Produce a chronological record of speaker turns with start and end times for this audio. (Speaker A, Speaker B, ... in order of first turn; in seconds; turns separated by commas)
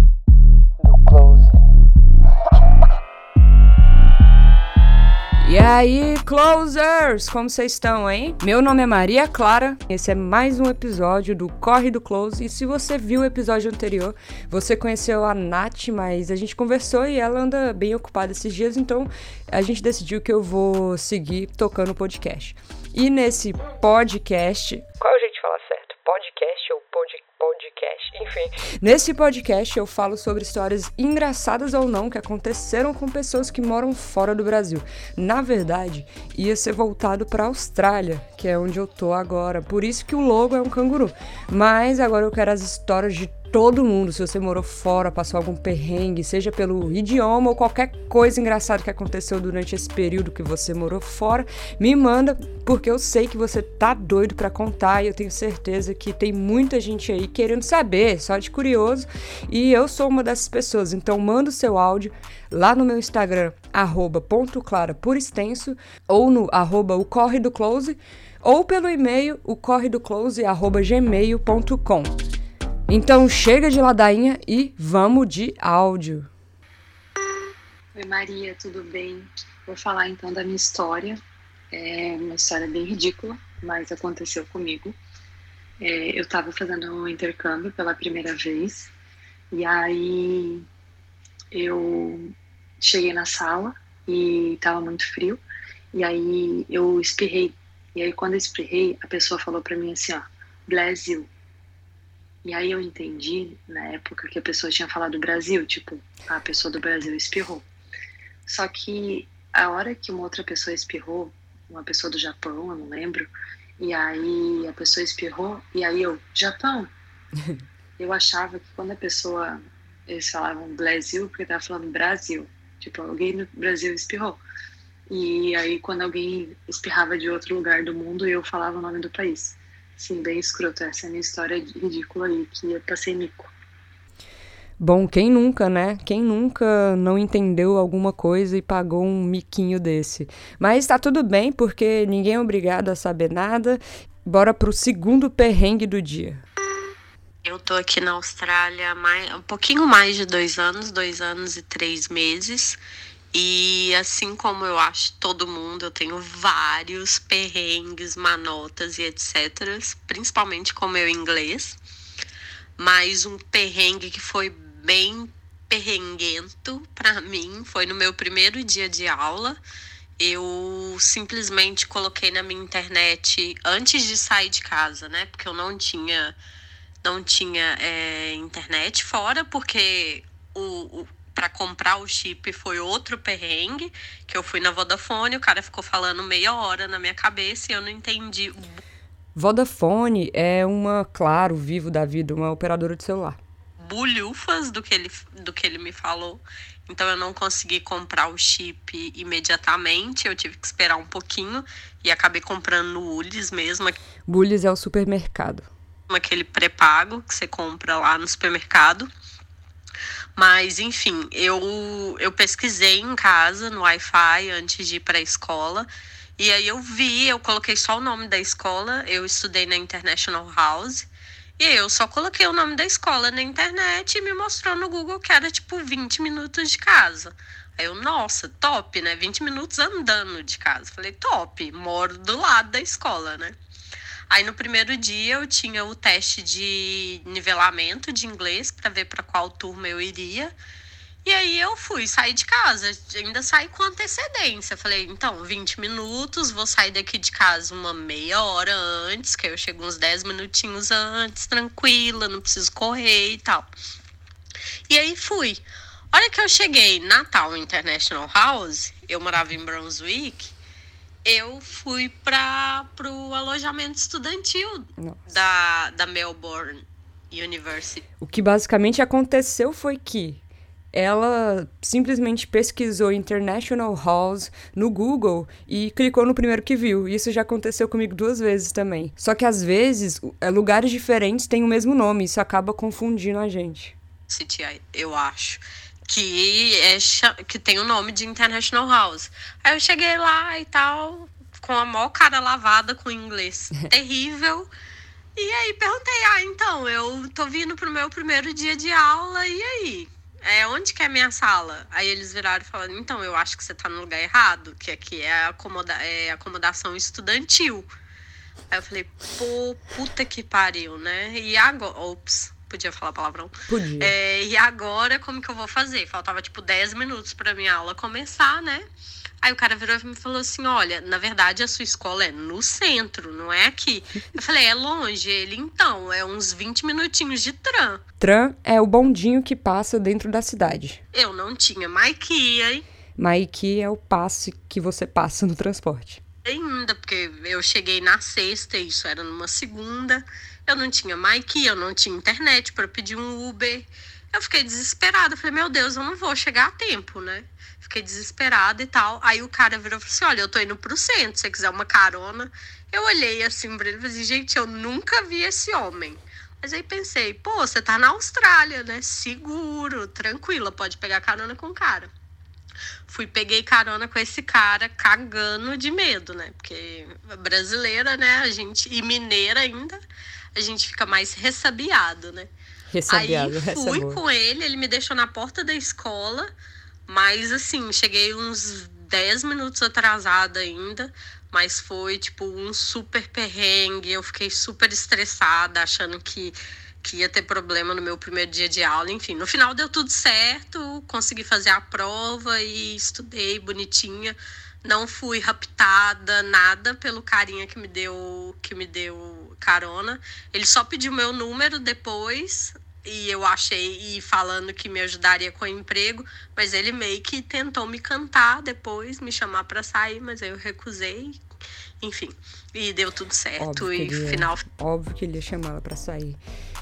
Speaker A: 0.8-1.5, Speaker A: 5.4-72.2, Speaker A: 72.9-76.3, Speaker B: 78.0-81.2, Speaker B: 81.7-85.0, Speaker B: 85.8-88.9, Speaker B: 89.5-90.7, Speaker B: 91.5-92.2, Speaker B: 92.8-95.4, Speaker B: 95.9-101.3, Speaker B: 102.5-107.7, Speaker B: 108.5-116.9, Speaker B: 118.0-119.6, Speaker B: 120.1-124.4, Speaker B: 125.1-133.5, Speaker A: 134.8-146.4, Speaker C: 147.4-152.8, Speaker C: 153.3-161.8, Speaker C: 162.8-169.6, Speaker C: 170.2-176.4, Speaker C: 177.0-188.8, Speaker A: 189.4-193.4, Speaker C: 193.8-204.0, Speaker A: 204.3-205.7, Speaker C: 206.1-209.1, Speaker C: 210.3-215.9, Speaker C: 216.4-233.6, Speaker C: 234.3-240.6, Speaker C: 241.2-253.7, Speaker C: 254.9-260.5, Speaker C: 261.2-268.0, Speaker A: 265.0-265.3, Speaker A: 268.2-283.9, Speaker C: 284.3-294.7, Speaker C: 295.4-307.9, Speaker C: 308.7-318.8, Speaker A: 313.7-314.1, Speaker C: 319.4-328.0, Speaker A: 328.2-331.0, Speaker C: 331.1-332.8, Speaker A: 333.2-336.2, Speaker C: 336.4-362.1, Speaker C: 363.1-370.0, Speaker C: 370.6-372.5, Speaker A: 372.9-374.2, Speaker C: 373.1-376.5, Speaker C: 377.1-411.4, Speaker C: 412.0-414.6, Speaker A: 413.6-416.4